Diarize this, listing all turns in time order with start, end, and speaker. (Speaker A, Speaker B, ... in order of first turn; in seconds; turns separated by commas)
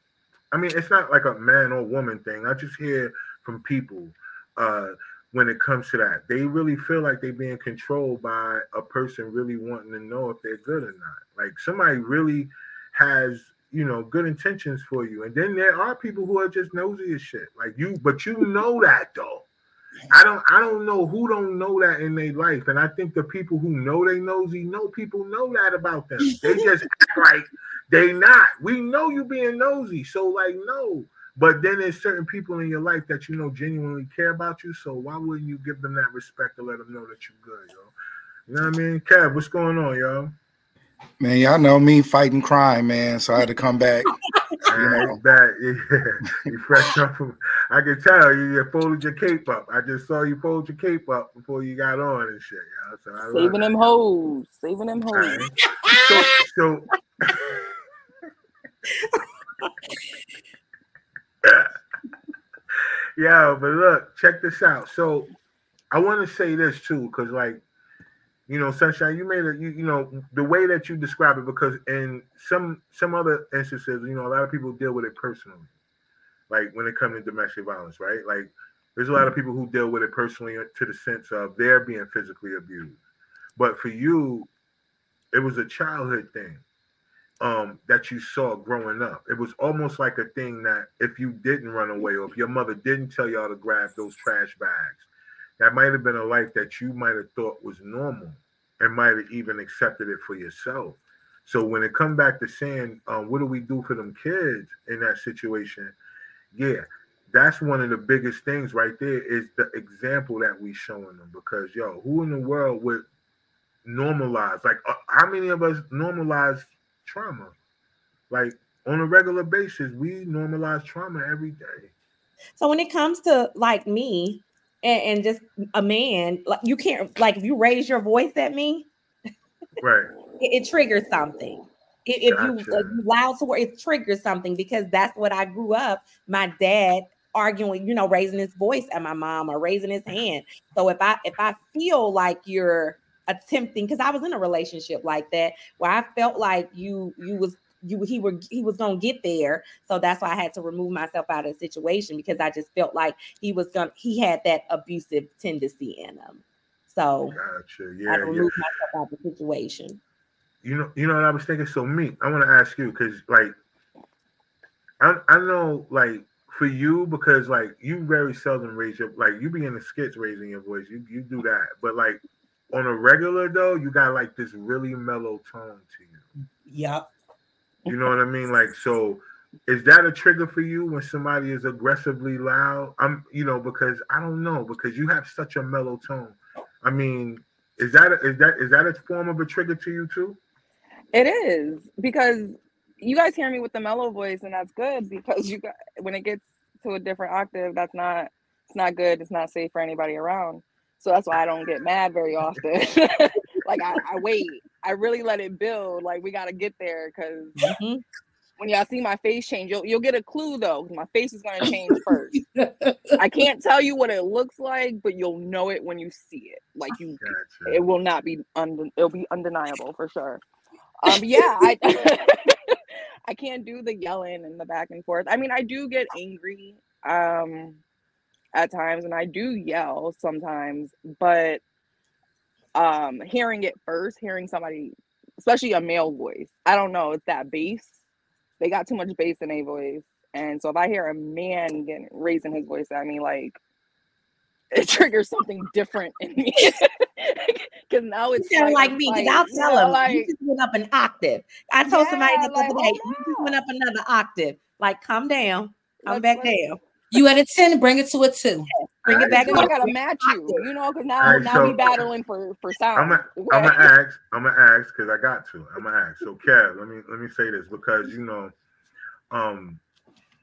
Speaker A: 0.5-19.5, Speaker A: 20.1-37.9, Speaker A: 38.5-40.4, Speaker B: 41.2-44.1, Speaker B: 44.7-45.1, Speaker A: 44.7-54.0, Speaker C: 53.3-55.5, Speaker A: 55.1-57.5, Speaker D: 55.9-56.1, Speaker A: 61.4-61.7, Speaker A: 63.2-65.3, Speaker A: 65.9-67.6, Speaker A: 68.5-75.7, Speaker A: 76.5-83.0, Speaker A: 83.6-84.5, Speaker A: 85.3-86.6, Speaker A: 87.4-95.1, Speaker A: 95.6-106.0, Speaker A: 106.5-113.1, Speaker A: 113.8-117.5, Speaker A: 118.3-121.9, Speaker E: 122.6-128.9, Speaker A: 129.8-130.1, Speaker E: 130.4-157.4, Speaker A: 132.3-133.0, Speaker A: 157.3-158.5, Speaker E: 158.1-160.0, Speaker A: 160.6-163.6, Speaker A: 165.0-176.2, Speaker D: 176.7-177.1, Speaker A: 177.9-190.4, Speaker C: 191.1-207.7, Speaker E: 207.6-208.0, Speaker C: 208.6-212.4, Speaker D: 211.8-213.2, Speaker C: 213.2-220.4, Speaker A: 217.2-217.8, Speaker C: 221.0-227.8, Speaker C: 228.5-231.6, Speaker C: 232.8-237.9, Speaker C: 238.6-243.6, Speaker C: 244.8-250.3, Speaker E: 248.4-256.8, Speaker C: 251.8-253.6, Speaker C: 256.1-256.6, Speaker D: 257.1-258.7, Speaker E: 258.8-260.6, Speaker A: 259.1-259.7, Speaker C: 259.1-263.9, Speaker A: 261.2-261.8, Speaker A: 263.0-268.5, Speaker A: 269.3-269.8